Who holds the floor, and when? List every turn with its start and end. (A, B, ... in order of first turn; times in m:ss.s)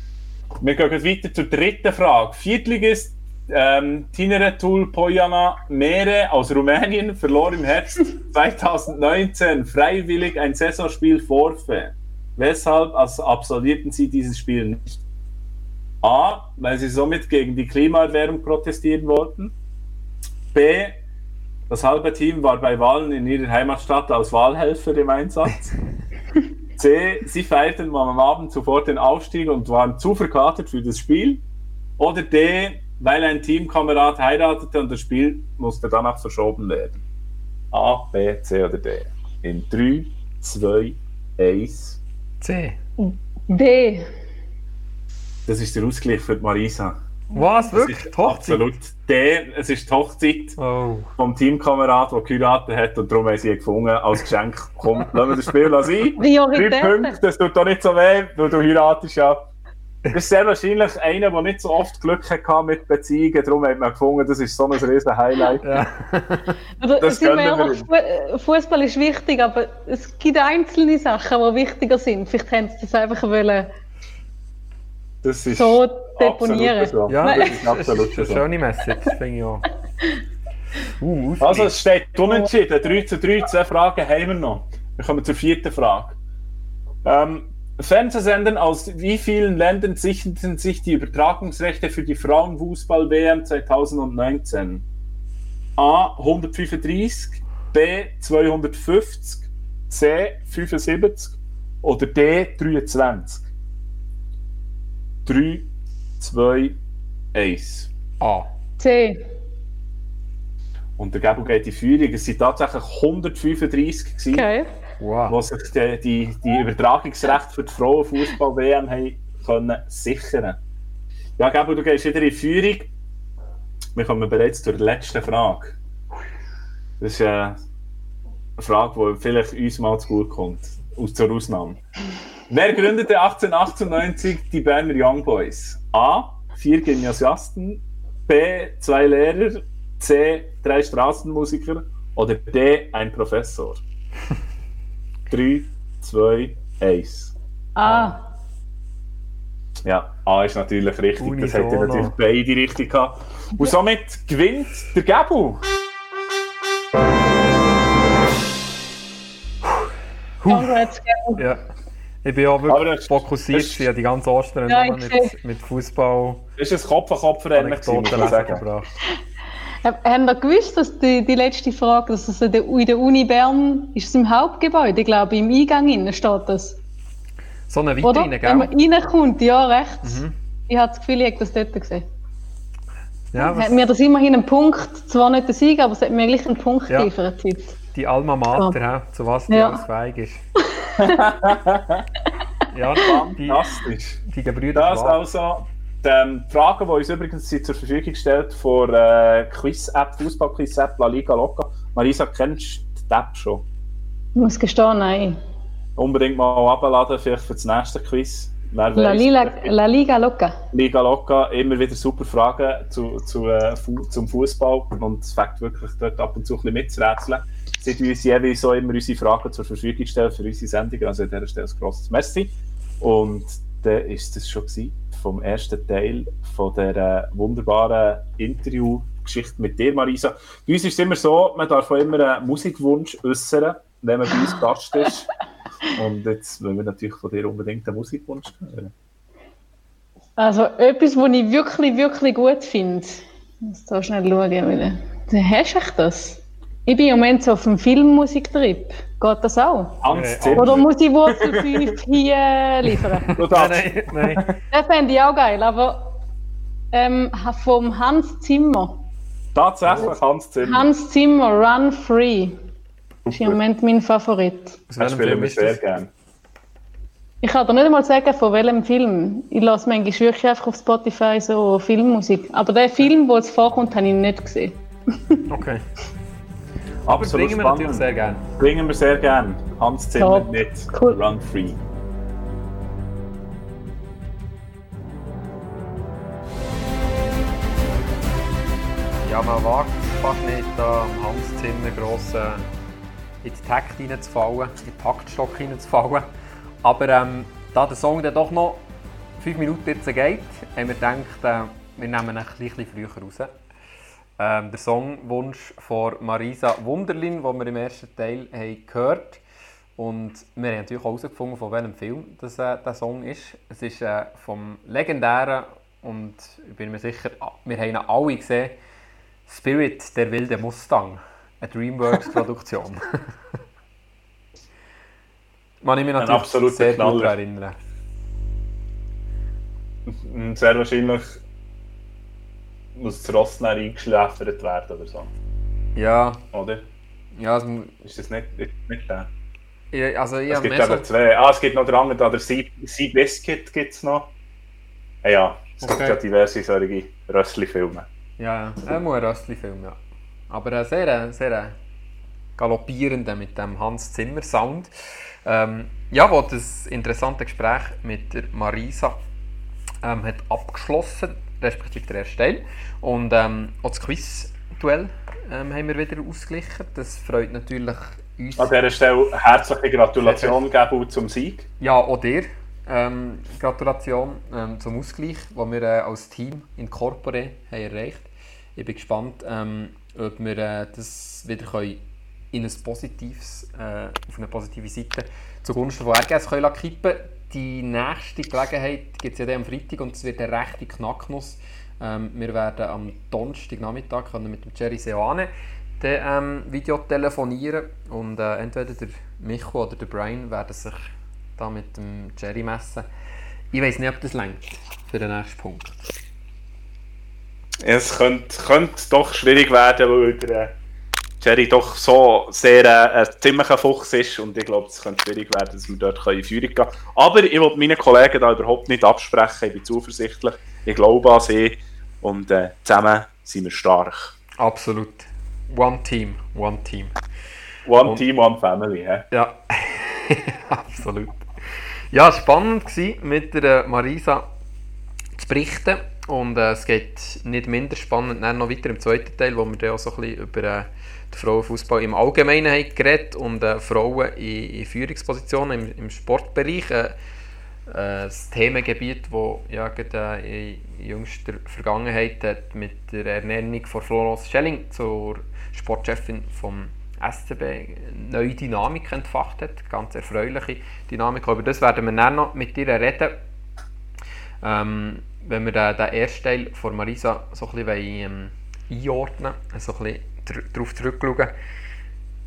0:00.6-0:15.0 A
0:16.0-0:19.5 A
0:20.5-0:21.0 A
0:21.7-0:25.7 A
0:26.8-0:31.4 A
0:32.0-0:37.0 A
0:37.7-0:42.0 A
0:42.4-0:42.8 B
0:43.0-0:44.1 C
0:45.5-0:47.0 A
0:47.3-0:48.6 B
0:47.7-0:50.6 A
0:50.6-0:51.1 B
0:51.2-0:59.4 A
0:56.2-0:57.1 C
1:00.1-1:05.7 A
1:05.6-1:06.5 B
1:06.8-1:13.7 C
1:07.0-1:07.9 A
1:15.2-1:18.4 A
1:15.5-1:17.4 C
1:17.1-1:19.7 B
1:21.0-1:21.7 B
1:21.4-1:26.2 A
1:27.0-1:34.8 A
1:35.8-1:43.4 A
1:45.2-1:45.7 A
1:46.2-1:46.8 A
1:47.3-1:47.9 A
1:48.2-1:48.5 B
1:48.8-1:49.2 C
1:51.0-1:54.5 A
1:54.3-1:54.7 C
1:55.0-1:55.4 B
1:55.3-2:00.6 A
2:01.4-2:02.9 A
2:03.9-2:05.8 A
2:07.0-2:07.6 A
2:08.6-2:11.8 A
2:12.5-2:23.8 A
2:25.3-2:27.4 A
2:27.8-2:28.2 C
2:27.8-2:28.1 B
2:29.8-2:35.6 A
2:31.2-2:32.1 B
2:40.4-2:40.8 B
2:40.5-2:41.4 C
2:42.2-2:46.4 B
2:42.7-2:43.8 A
2:44.7-2:45.3 C
2:46.6-2:48.6 A
2:47.5-2:48.9 B
2:49.8-2:56.8 C
2:57.7-2:58.7 B
2:58.0-3:02.0 C
3:00.0-3:00.3 B
3:03.3-3:03.8 B
3:03.4-3:07.8 C
3:07.9-3:10.4 B
3:09.5-3:09.8 C
3:10.8-3:11.2 C
3:11.0-3:12.0 A
3:12.7-3:15.2 B
3:13.0-3:14.2 A
3:14.7-3:23.6 A
3:24.4-3:25.4 C
3:26.0-3:29.7 A
3:29.0-3:30.6 C
3:30.7-3:55.3 A
3:55.9-3:58.9 A
4:00.4-4:10.0 C
4:10.0-4:11.9 A
4:10.1-4:10.8 B
4:10.6-4:13.3 C
4:13.3-4:14.5 B
4:13.4-4:14.5 A
4:14.7-4:16.1 C
4:16.9-4:19.1 C
4:19.5-4:20.9 A
4:20.6-4:22.6 C
4:23.2-4:23.6 A
4:23.3-4:24.8 C
4:24.9-4:25.8 B
4:25.0-4:26.1 A
4:27.4-4:35.4 C
4:35.5-4:35.8 B
4:37.0-4:38.0 A
4:37.1-4:38.4 B
4:38.6-4:41.8 A
4:40.2-4:41.2 C
4:49.2-4:52.6 B
4:53.4-4:56.2 B
4:56.8-4:58.8 B
4:59.4-5:03.5 B
5:04.4-5:09.4 B
5:10.0-5:18.7 B
5:19.5-5:23.3 B
5:25.8-5:27.8 B
5:26.2-5:27.3 A
5:30.0-5:31.4 A
5:32.9-5:35.3 A
5:36.0-5:36.4 B
5:36.5-5:36.8 A
5:37.4-5:38.0 B
5:38.0-5:39.3 A
5:39.9-5:41.0 B
5:40.5-5:44.3 A
5:45.2-5:48.1 A
5:45.8-5:46.2 B
5:48.4-5:50.0 B
5:50.5-5:51.7 B
5:52.6-5:54.9 B
5:55.4-5:59.2 B
6:00.0-6:08.7 B
6:08.6-6:11.7 A
6:10.2-6:10.6 B
6:11.8-6:22.0 B
6:22.5-6:41.0 B
6:41.6-6:43.0 B
6:43.7-6:46.1 B
6:47.8-6:50.7 A
6:51.4-7:04.3 A
7:04.6-7:07.1 B
7:07.8-7:09.3 A
7:09.3-7:11.4 B
7:12.1-7:14.4 B
7:15.4-7:27.1 B
7:27.9-7:43.3 B
7:44.6-7:51.5 B